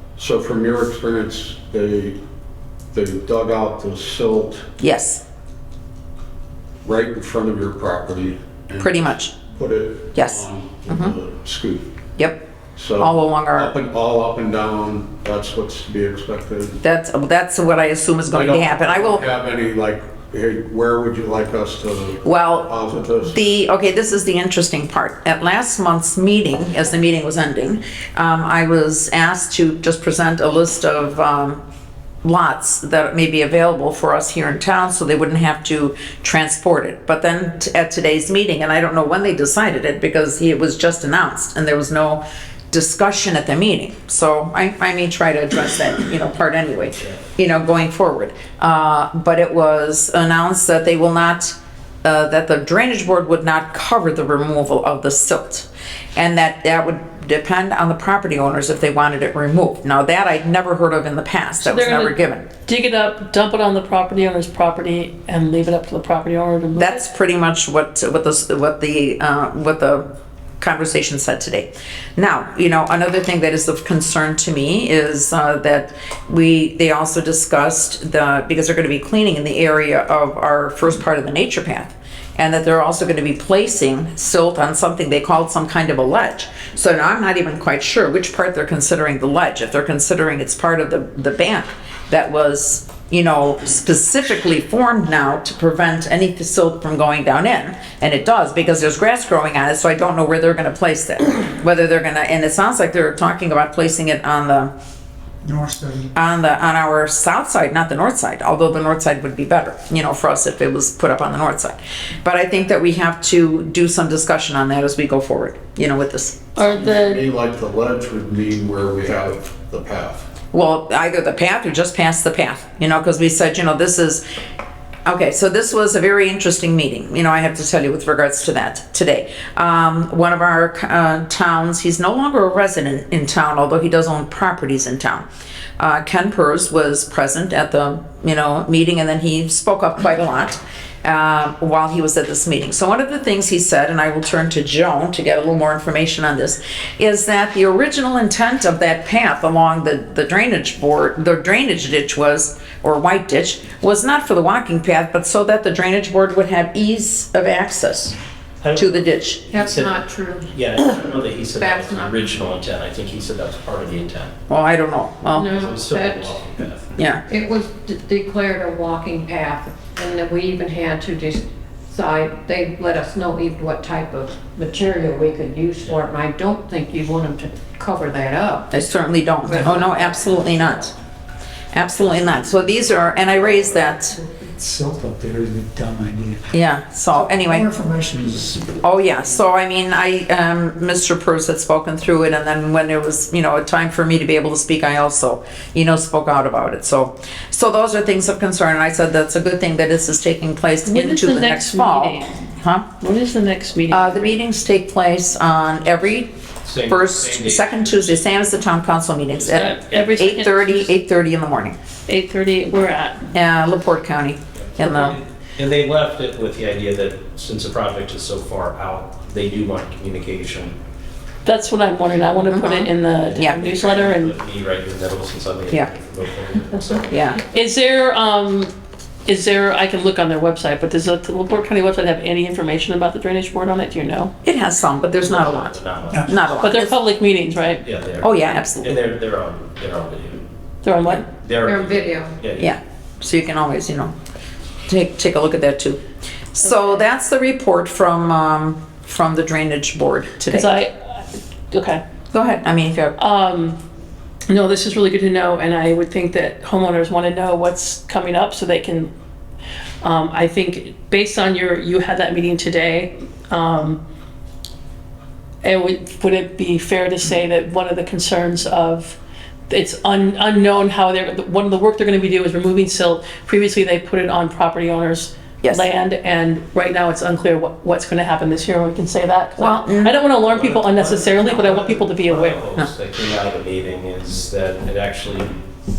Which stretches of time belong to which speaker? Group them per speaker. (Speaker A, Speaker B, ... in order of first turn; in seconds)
Speaker A: 0.2-2.2, 2.9-4.7, 6.8-11.9, 12.8-16.8, 18.3-23.4, 116.6-120.3
Speaker B: 4.8-5.2, 8.8-9.3, 10.1-11.1, 13.0-13.7, 16.8-19.2, 22.2-22.7, 23.3-31.6, 32.2-62.5, 66.8-70.1, 70.6-104.7, 106.1-116.5, 120.5-124.2, 125.0-135.2, 135.8-158.2, 158.8-159.4, 164.5-165.6, 167.0-167.2, 178.7-180.9, 181.7-184.2, 186.5-187.7, 188.8-202.9, 203.9-211.8, 213.3-215.2, 222.5-223.6, 227.1-227.4, 234.4-236.9, 238.2-239.0, 242.6-244.1, 244.9-246.0, 246.5-250.7, 252.3-253.2, 275.6-275.9, 279.6-280.2
Speaker C: 61.6-62.1, 62.6-67.0, 116.5-117.2, 200.8-202.4, 203.0-204.3, 209.5-210.9, 212.1-213.2, 221.4-224.3, 227.4-228.7, 229.2-234.3, 236.6-237.8, 240.8-241.3, 250.5-252.0, 253.2-253.8, 254.5-259.1, 260.0-264.0, 265.6-269.2, 269.7-282.6
Speaker D: 105.4-106.0, 184.3-186.5, 187.2-188.7, 236.1-236.4
Speaker E: 158.6-160.0, 160.5-164.3, 165.4-166.9, 206.6-208.5, 214.6-220.8, 223.5-227.2, 235.2-236.6, 237.8-240.4, 241.3-242.8, 280.4-285.6
Speaker F: 159.5-160.5, 161.5-162.2, 165.3-166.4, 167.3-178.7, 179.4-180.6, 241.5-242.4